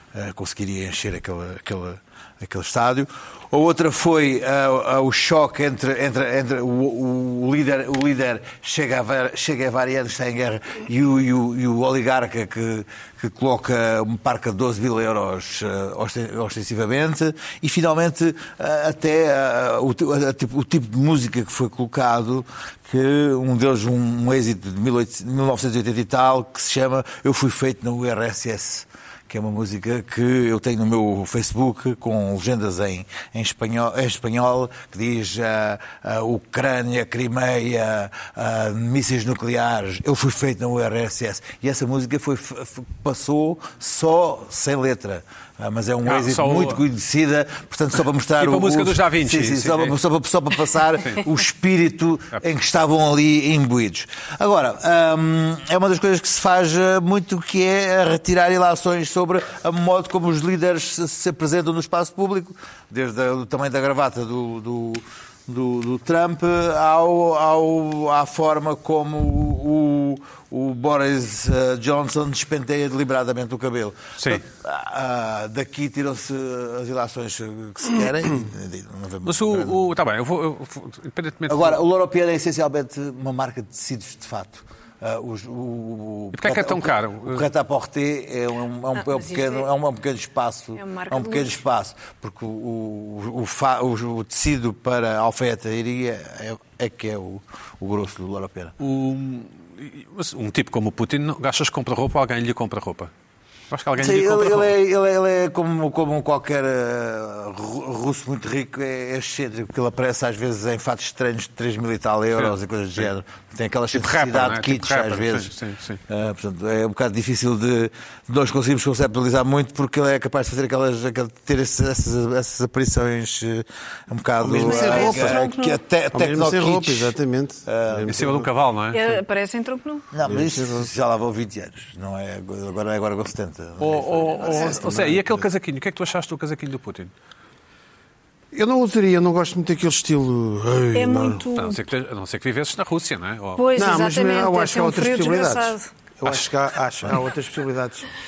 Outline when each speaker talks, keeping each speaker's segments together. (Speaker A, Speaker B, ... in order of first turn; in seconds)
Speaker A: 0.1-79.8, 81.5-98.8, 104.0-115.5, 116.1-127.2, 127.7-128.2, 130.1-135.3
Speaker B: 46.0-46.8, 48.4-50.0, 74.2-74.4, 79.2-81.8, 86.3-87.4, 98.8-103.1, 103.7-104.7, 112.3-113.0, 113.9-116.0, 128.1-129.2, 133.8-137.1, 141.5-143.6
Speaker C: 89.0-89.7, 90.8-91.6, 124.6-125.8, 128.9-130.1, 140.9-141.8, 143.6-145.9
Speaker D: 124.4-125.5, 126.1-128.5, 130.2-130.9, 134.5-135.1, 138.5-141.4, 143.8-148.1